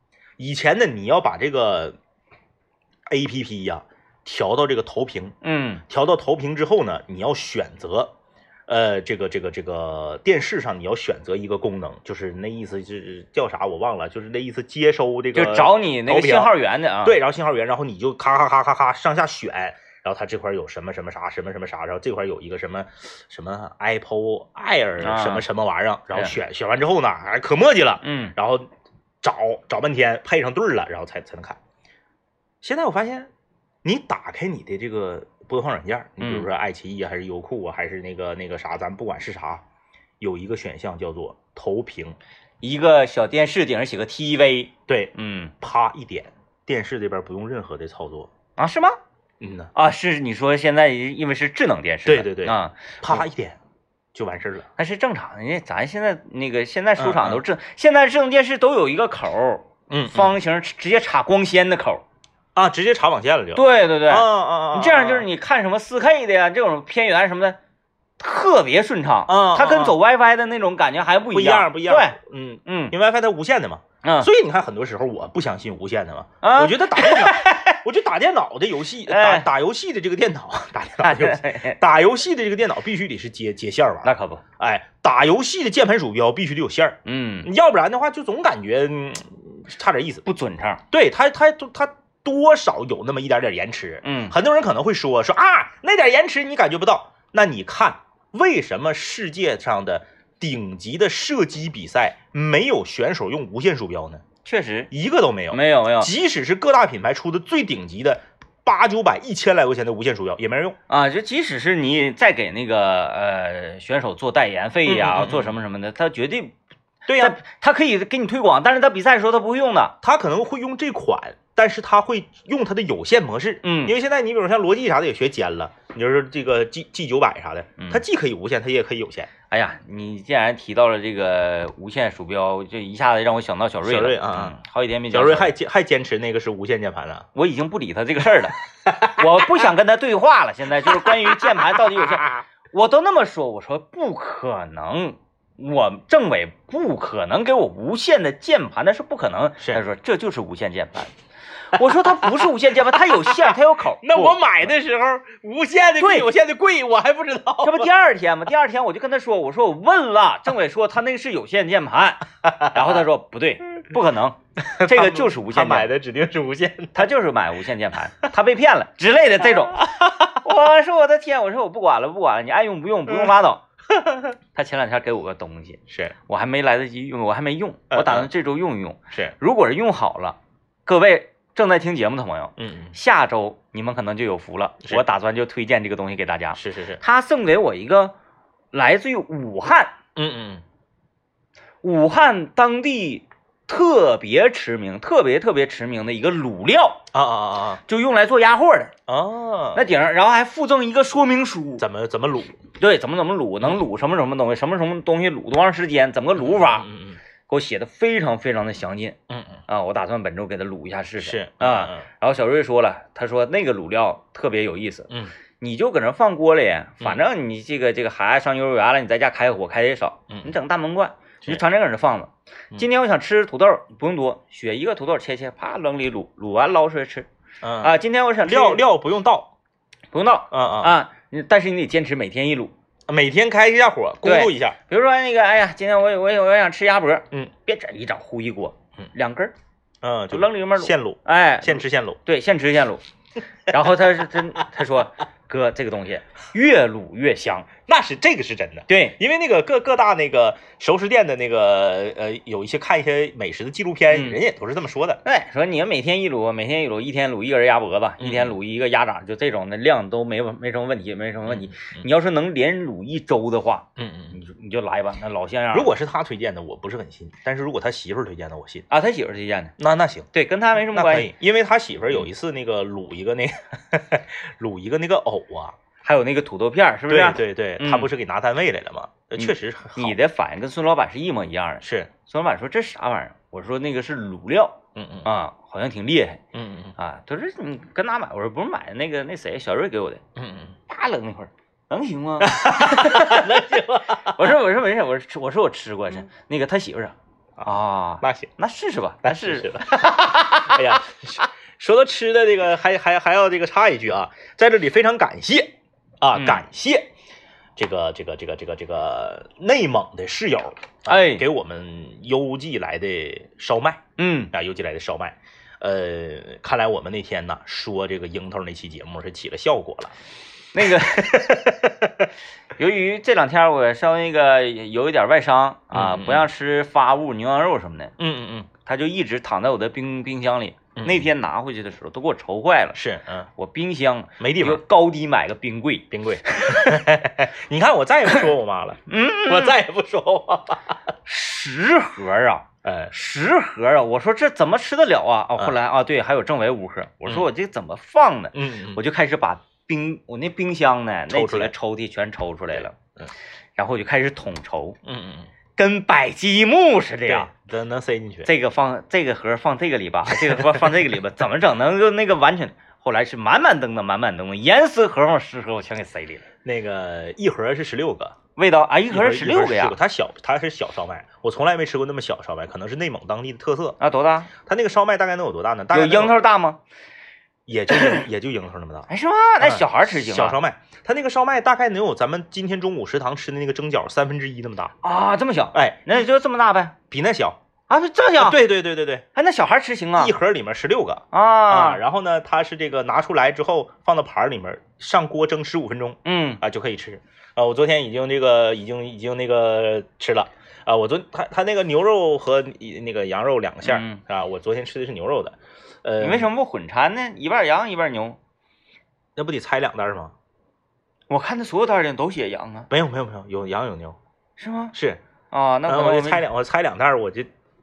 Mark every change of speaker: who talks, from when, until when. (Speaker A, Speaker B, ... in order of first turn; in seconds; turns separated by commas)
Speaker A: 0.4-2.0, Speaker A: 3.1-5.4, Speaker B: 5.4-5.8, Speaker A: 5.9-8.1, Speaker A: 8.7-28.7, Speaker B: 15.3-17.2, Speaker B: 25.0-25.5, Speaker B: 28.0-28.3, Speaker A: 29.2-31.6, Speaker A: 32.6-33.3, Speaker A: 33.8-39.6, Speaker B: 36.2-36.5, Speaker A: 40.2-42.2, Speaker B: 42.6-45.5, Speaker A: 44.9-48.3, Speaker B: 48.6-49.0, Speaker A: 49.4-49.7, Speaker B: 49.8-53.3, Speaker A: 52.1-53.6, Speaker A: 54.1-54.7, Speaker B: 54.8-62.0, Speaker A: 57.0-57.4, Speaker A: 59.9-60.3, Speaker A: 62.6-65.3, Speaker B: 63.5-67.6, Speaker B: 68.2-72.9, Speaker A: 69.3-70.0, Speaker A: 71.3-90.3, Speaker B: 74.0-74.3, Speaker B: 76.4-77.8, Speaker B: 79.1-79.5, Speaker B: 81.0-81.8, Speaker B: 84.0-84.4, Speaker B: 87.0-87.5, Speaker B: 90.3-90.8, Speaker A: 90.9-104.2, Speaker B: 94.0-94.3, Speaker B: 104.5-104.9, Speaker A: 104.9-110.8, Speaker B: 105.5-106.1, Speaker B: 110.9-116.6, Speaker A: 114.9-115.5, Speaker A: 117.1-117.4, Speaker B: 117.2-120.0, Speaker A: 120.0-129.3, Speaker B: 123.6-124.0, Speaker B: 127.8-128.0, Speaker B: 129.5-135.5, Speaker A: 133.8-134.6, Speaker A: 135.1-137.3, Speaker B: 137.3-138.6, Speaker A: 138.8-139.2, Speaker B: 139.1-151.1, Speaker A: 140.9-142.4, Speaker B: 151.7-154.7, Speaker A: 152.2-157.9, Speaker B: 156.0-156.3, Speaker B: 157.6-165.9, Speaker A: 162.4-162.9, Speaker A: 164.6-167.1, Speaker B: 166.9-173.6, Speaker A: 169.8-170.4, Speaker A: 173.9-174.3, Speaker B: 174.6-188.1, Speaker A: 175.9-176.2, Speaker A: 177.9-178.3, Speaker A: 182.6-182.9, Speaker A: 186.6-187.0, Speaker B: 188.7-189.9, Speaker A: 190.2-190.6, Speaker B: 191.8-197.0, Speaker A: 197.1-197.8, Speaker B: 197.9-198.9, Speaker A: 199.1-199.9, Speaker B: 199.7-201.8, Speaker A: 201.8-202.6, Speaker B: 202.8-206.9, Speaker A: 206.4-207.2, Speaker B: 207.5-209.2, Speaker A: 209.3-209.6, Speaker B: 209.7-227.3, Speaker A: 211.2-212.1, Speaker A: 227.6-229.5, Speaker B: 227.8-228.8, Speaker B: 230.1-232.7, Speaker A: 230.5-230.9, Speaker A: 233.1-234.8, Speaker B: 234.2-239.5, Speaker A: 240.0-242.2, Speaker B: 240.3-243.0, Speaker B: 243.7-247.7, Speaker A: 247.9-255.2, Speaker B: 248.9-249.2, Speaker B: 254.1-254.4, Speaker B: 255.2-265.9, Speaker A: 258.2-258.6, Speaker A: 261.5-262.1, Speaker A: 264.0-264.4, Speaker A: 265.7-268.9, Speaker B: 268.9-269.7, Speaker A: 269.8-270.3, Speaker B: 270.3-271.3, Speaker A: 270.8-275.8, Speaker B: 276.0-278.1, Speaker A: 277.1-280.2, Speaker B: 279.4-286.4, Speaker A: 281.8-282.1, Speaker A: 285.0-285.3, Speaker A: 286.5-286.9, Speaker B: 287.0-290.2, Speaker A: 290.4-290.8, Speaker B: 290.9-301.0, Speaker A: 292.4-294.4, Speaker A: 297.6-298.5, Speaker A: 299.2-307.1, Speaker B: 306.4-306.6, Speaker A: 307.8-320.1, Speaker B: 311.1-311.4, Speaker B: 314.2-314.5, Speaker B: 320.7-321.7, Speaker A: 320.9-322.3, Speaker B: 322.8-328.1, Speaker A: 325.9-326.5, Speaker A: 328.2-328.7, Speaker B: 328.9-333.0, Speaker A: 331.0-331.3, Speaker A: 332.9-333.5, Speaker B: 333.6-337.1, Speaker A: 334.4-334.8, Speaker A: 336.1-340.9, Speaker B: 339.1-339.8, Speaker B: 341.3-352.9, Speaker A: 342.9-343.1, Speaker A: 348.5-349.0, Speaker A: 351.3-351.7, Speaker A: 352.8-353.3, Speaker B: 353.8-355.0, Speaker A: 355.1-355.5, Speaker B: 355.8-357.5, Speaker A: 357.3-358.5, Speaker B: 358.4-366.4, Speaker A: 360.3-360.9, Speaker A: 366.6-368.4, Speaker B: 368.6-370.0, Speaker A: 369.1-374.0, Speaker B: 374.0-374.5, Speaker A: 374.6-376.4, Speaker B: 375.9-376.8, Speaker A: 377.7-379.1, Speaker B: 377.9-378.2, Speaker B: 379.1-380.6, Speaker A: 379.6-384.9, Speaker B: 385.0-387.0, Speaker A: 385.7-386.2, Speaker A: 387.1-387.6, Speaker B: 387.9-388.6, Speaker A: 388.4-389.2, Speaker B: 389.4-390.3, Speaker A: 390.2-406.5, Speaker B: 391.3-392.0, Speaker B: 396.2-396.6, Speaker B: 403.8-404.2, Speaker B: 406.2-408.4, Speaker A: 409.4-410.3, Speaker B: 411.3-412.9, Speaker A: 412.9-414.2, Speaker B: 414.6-414.9, Speaker A: 414.9-415.2, Speaker B: 415.5-416.4, Speaker A: 415.9-417.5